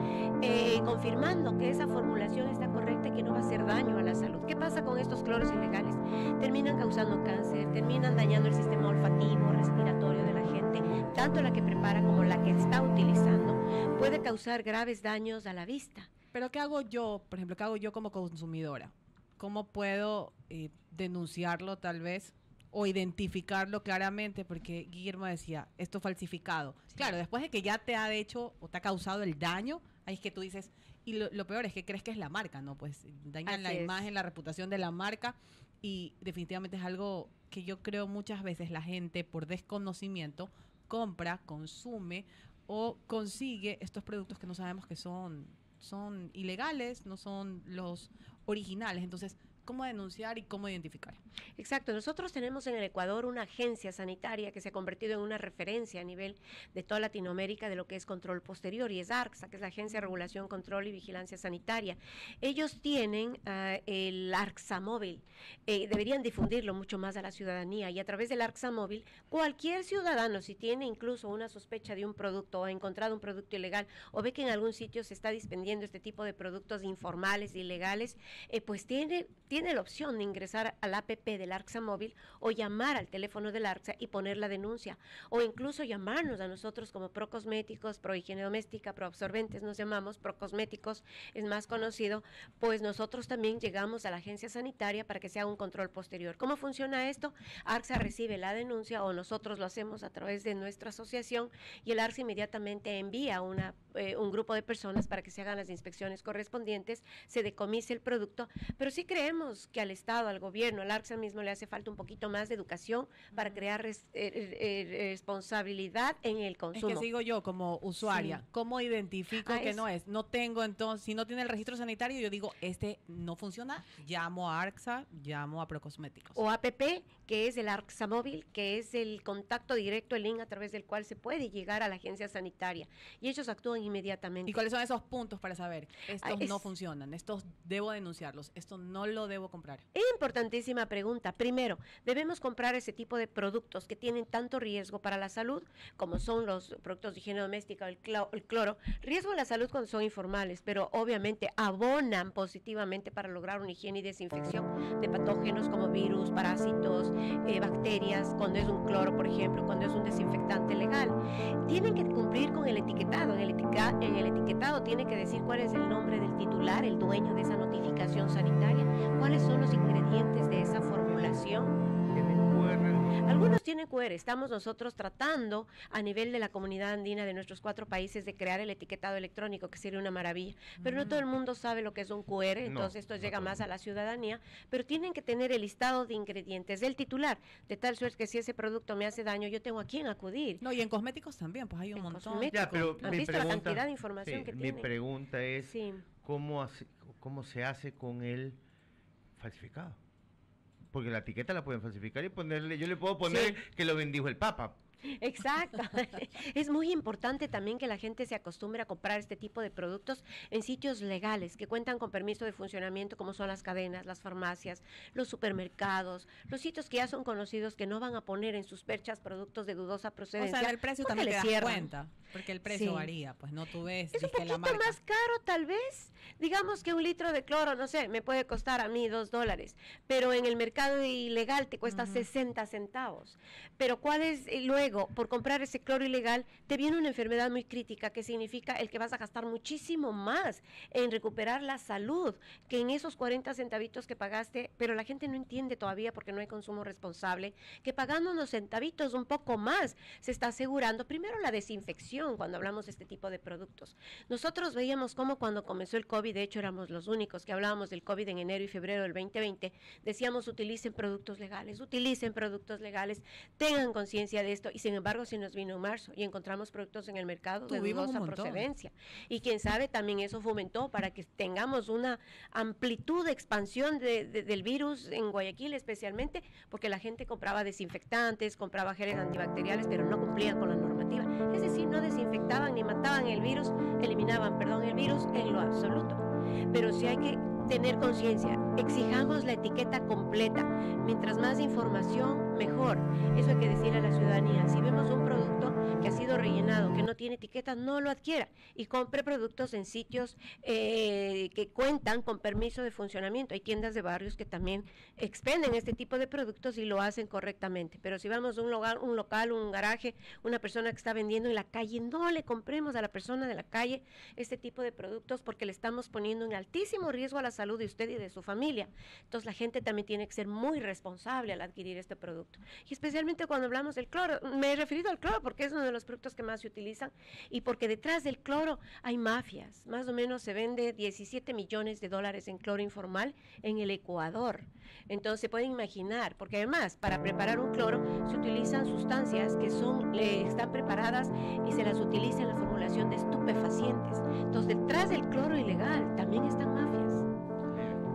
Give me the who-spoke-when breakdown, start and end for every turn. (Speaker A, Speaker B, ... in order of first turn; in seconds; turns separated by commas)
Speaker A: 0.4-16.1, Speaker B: 16.3-51.2, Speaker A: 33.5-34.1, Speaker A: 51.6-117.0, Speaker B: 116.7-126.4, Speaker A: 118.0-118.4, Speaker A: 119.4-119.8, Speaker A: 126.4-134.6, Speaker B: 134.4-139.8, Speaker A: 136.2-136.7, Speaker A: 139.9-171.7, Speaker C: 172.1-173.1, Speaker A: 173.2-190.6, Speaker B: 180.8-181.2, Speaker C: 182.6-183.6, Speaker B: 190.6-193.6, Speaker A: 191.9-194.9, Speaker C: 192.5-198.6, Speaker A: 195.6-196.0, Speaker C: 199.4-200.0, Speaker C: 200.9-204.8, Speaker A: 203.3-203.6, Speaker A: 205.1-221.9, Speaker B: 220.4-225.0, Speaker A: 222.7-223.1, Speaker A: 224.1-347.2, Speaker B: 231.9-232.3, Speaker B: 267.7-268.7